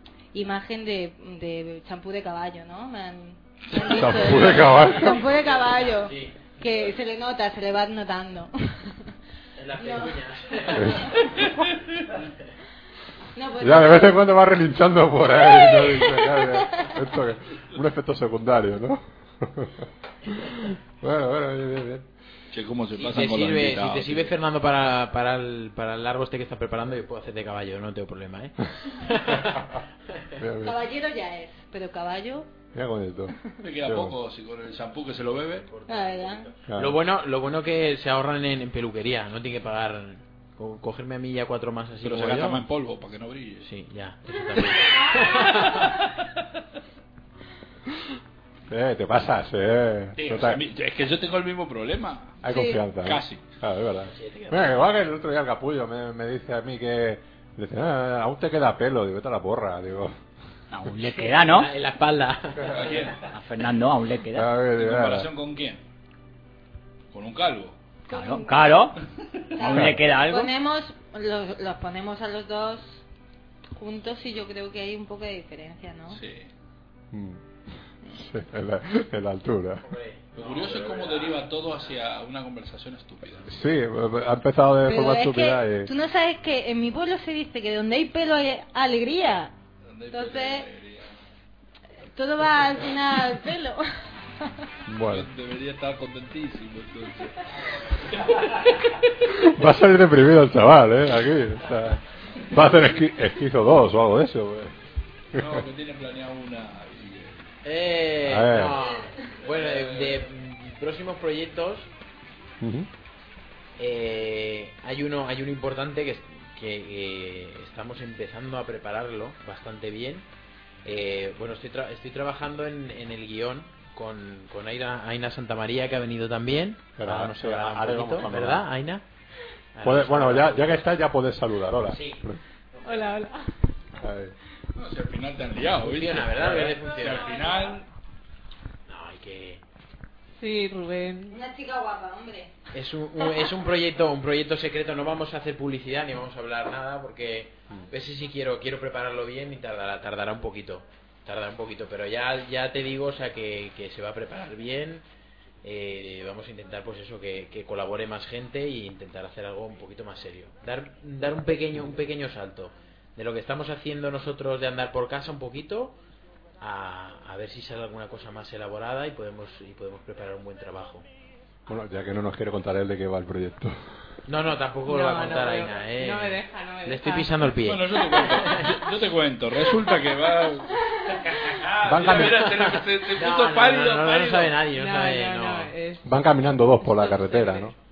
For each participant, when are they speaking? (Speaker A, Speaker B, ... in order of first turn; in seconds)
Speaker A: 0.3-8.9, 9.8-10.2, 13.3-14.2, 15.6-16.9, 30.6-32.5, 35.9-36.5, 68.1-68.8, 69.6-73.0, 73.8-76.2, 84.9-89.5, 90.1-90.7, 92.1-93.8, 141.3-142.5
Speaker B: 3.8-5.2, 10.7-11.2, 13.6-22.1, 30.4-30.8, 32.7-34.1, 36.7-37.0, 48.7-50.6, 52.4-60.2, 64.3-65.3, 69.6-70.0, 77.1-79.9, 83.5-85.9, 94.9-95.3, 99.4-104.7, 105.3-105.6, 108.2-108.8, 112.6-112.9, 127.0-128.6, 129.8-132.4, 134.0-134.3, 171.7-174.0, 181.8-182.4, 186.0-187.7
Speaker C: 4.2-6.9, 9.6-11.3, 22.9-29.6, 35.7-42.6, 43.6-45.8, 54.1-55.0, 61.0-63.1, 79.8-82.0, 107.6-111.9, 113.8-120.2, 120.8-129.0, 129.7-130.9, 131.9-133.2, 135.8-137.4, 138.9-139.6, 142.7-155.0, 155.6-166.0, 166.6-171.1, 174.2-178.9, 182.1-185.7
Speaker D: 22.5-24.3, 33.6-35.7, 42.0-43.7, 50.2-52.4, 52.9-53.4, 62.7-63.2, 64.7-65.8, 67.1-67.8, 76.1-76.5, 80.3-83.5, 89.9-91.1, 95.1-98.8, 105.3-107.5, 109.4-110.2, 134.7-137.8, 177.6-184.6
Speaker E: 60.7-61.7, 63.3-64.5, 68.1-69.0, 69.6-70.5
Speaker F: 132.8-133.5, 137.2-137.8, 140.4-141.4, 174.9-177.3, 178.0-178.3, 184.7-186.1, 186.8-187.7